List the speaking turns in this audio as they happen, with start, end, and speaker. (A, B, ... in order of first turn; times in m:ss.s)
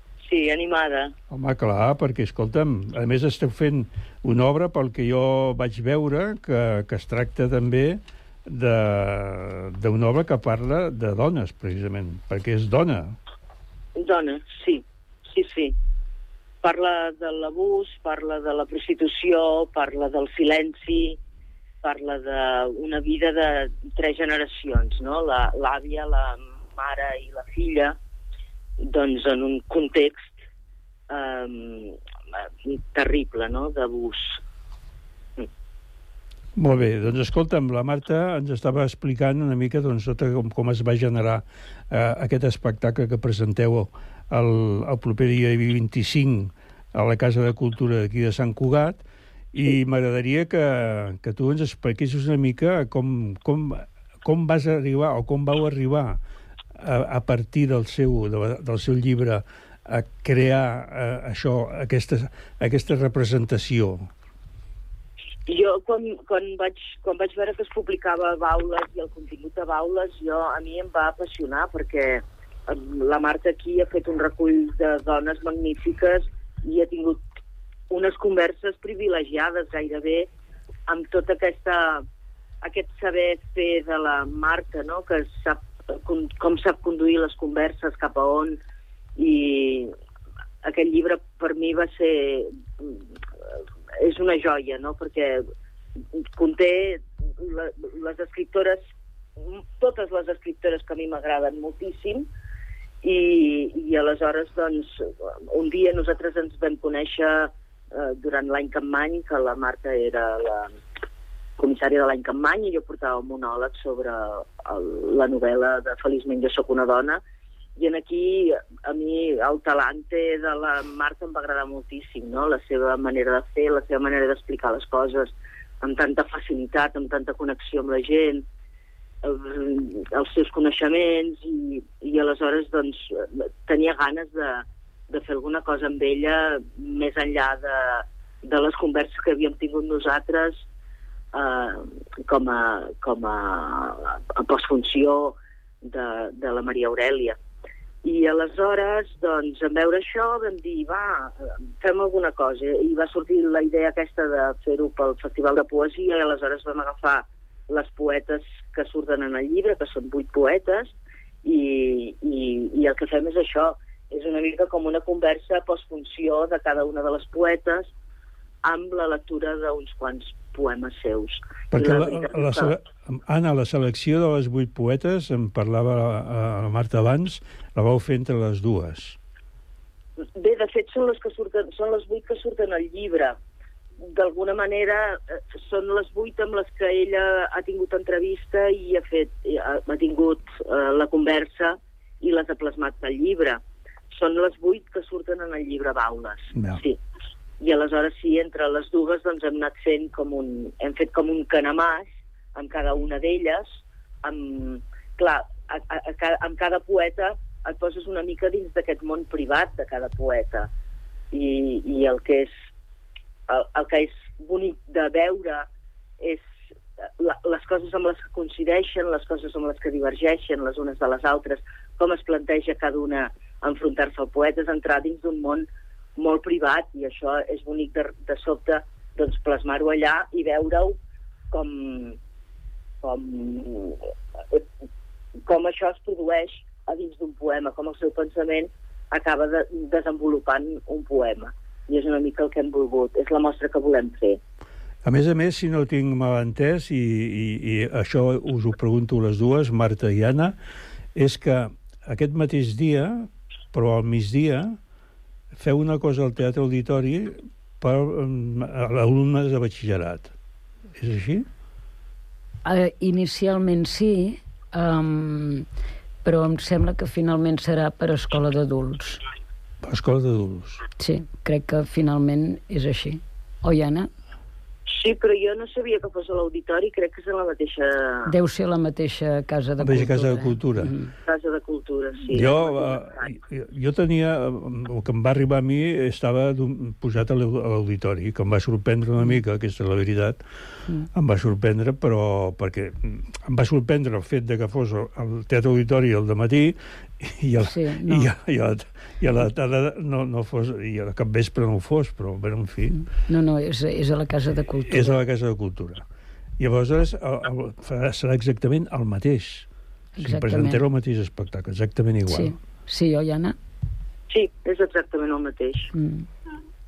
0:00.2-0:01.1 A
0:01.3-0:13.2 B
0:14.0-0:15.8 A
0:16.6-0:21.2 A
0:21.8-0:28.0 A
0:28.8-0:30.4 A
0:31.1-0:32.0 A
0:32.7-0:34.4 A
0:36.6-0:56.2 B
0:56.8-1:04.1 B
1:05.5-1:17.2 A
1:17.9-1:20.3 A
1:20.9-1:22.0 A
1:22.6-1:28.6 A
1:29.2-1:29.9 A
1:30.6-1:33.0 A
1:34.0-1:35.4 A
1:36.4-1:38.8 A
1:39.4-1:42.3 A
1:43.0-1:50.7 A
1:51.6-1:57.2 A
1:57.8-2:08.4 A
2:09.2-2:20.7 A
2:21.3-2:27.4 A
2:28.0-2:47.9 A
2:48.6-2:52.7 A
2:51.7-2:59.2 B
3:00.4-3:03.4 A
3:04.1-3:17.0 A
3:16.5-3:16.8 B
3:17.6-3:30.7 A
3:31.3-3:32.5 A
3:33.5-3:35.7 A
3:37.2-3:51.0 A
3:51.5-3:52.2 A
3:53.0-3:54.0 A
3:55.5-4:04.4 A
4:05.0-4:10.6 B
4:11.2-4:14.8 B
4:15.5-4:20.3 B
4:21.0-4:21.5 B
4:22.6-4:25.7 C
4:26.2-4:29.2 C
4:29.8-4:30.8 B
4:31.0-4:34.1 C
4:34.9-4:38.3 A
4:38.3-4:41.1 C
4:39.8-4:40.9 B
4:41.3-4:43.1 A
4:42.3-4:50.4 B
4:51.1-5:03.1 B
4:57.6-4:58.3 C
5:03.3-5:05.2 C
5:04.9-5:06.0 B
5:06.6-5:09.7 B
5:10.2-5:10.8 C
5:10.2-5:12.6 B
5:12.3-5:13.6 C
5:14.3-5:15.9 A
5:15.9-5:16.3 C